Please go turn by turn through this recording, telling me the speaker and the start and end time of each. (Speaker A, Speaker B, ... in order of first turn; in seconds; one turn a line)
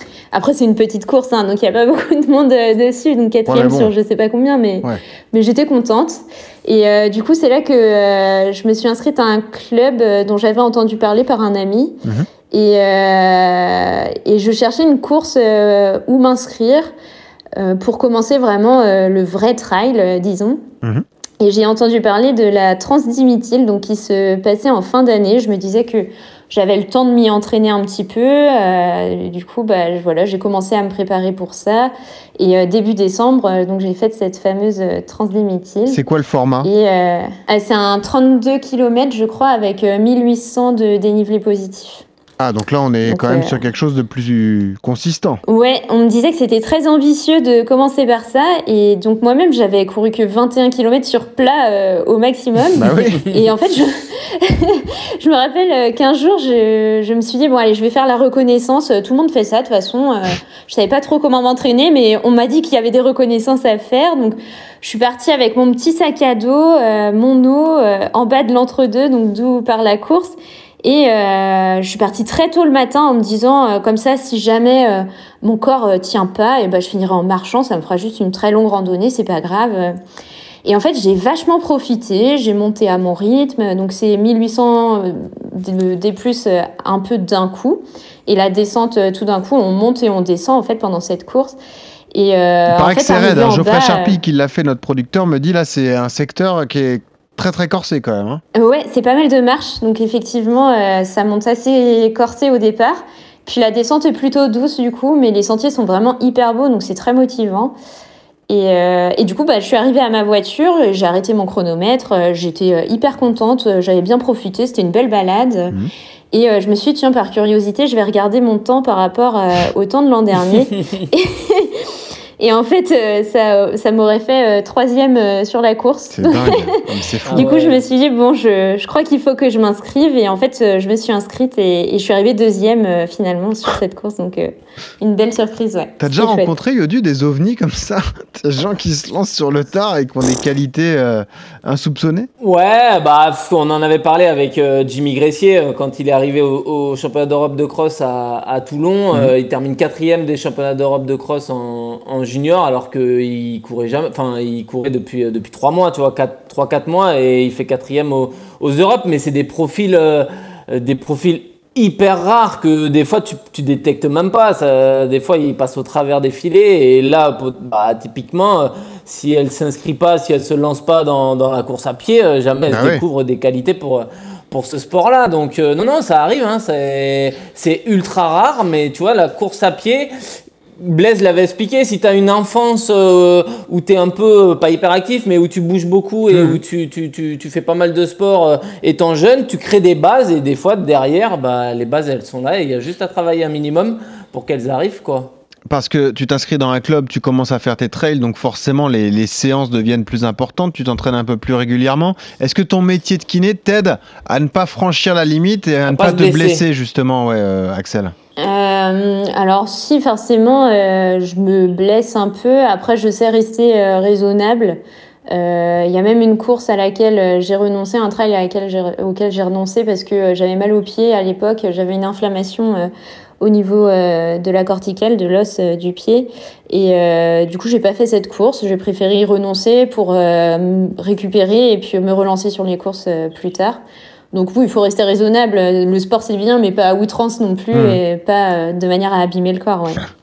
Speaker A: 0.3-12.0
Speaker B: 3.5-3.9
Speaker A: 12.5-16.9
Speaker A: 17.6-20.6
Speaker A: 21.4-36.0
Speaker B: 35.9-36.7
Speaker A: 36.6-42.0
Speaker B: 42.4-45.4
Speaker A: 43.1-43.6
Speaker A: 45.5-80.0
Speaker B: 52.8-53.2
Speaker A: 80.7-91.6
Speaker A: 92.1-94.2
Speaker B: 92.7-98.4
Speaker A: 98.5-107.8
Speaker A: 108.5-115.7
Speaker A: 116.3-121.7
Speaker A: 122.4-126.7
Speaker B: 126.1-127.5
Speaker C: 127.3-127.8
Speaker A: 127.3-136.5
Speaker B: 136.0-142.3
Speaker C: 142.4-180.1
Speaker B: 172.7-173.0
Speaker C: 180.8-195.3
Speaker B: 186.3-186.6
Speaker B: 195.7-208.2
Speaker C: 205.9-206.6
Speaker A: 208.4-214.8
Speaker A: 215.3-222.9
Speaker A: 223.4-233.8
Speaker A: 234.3-240.0
Speaker B: 237.7-238.0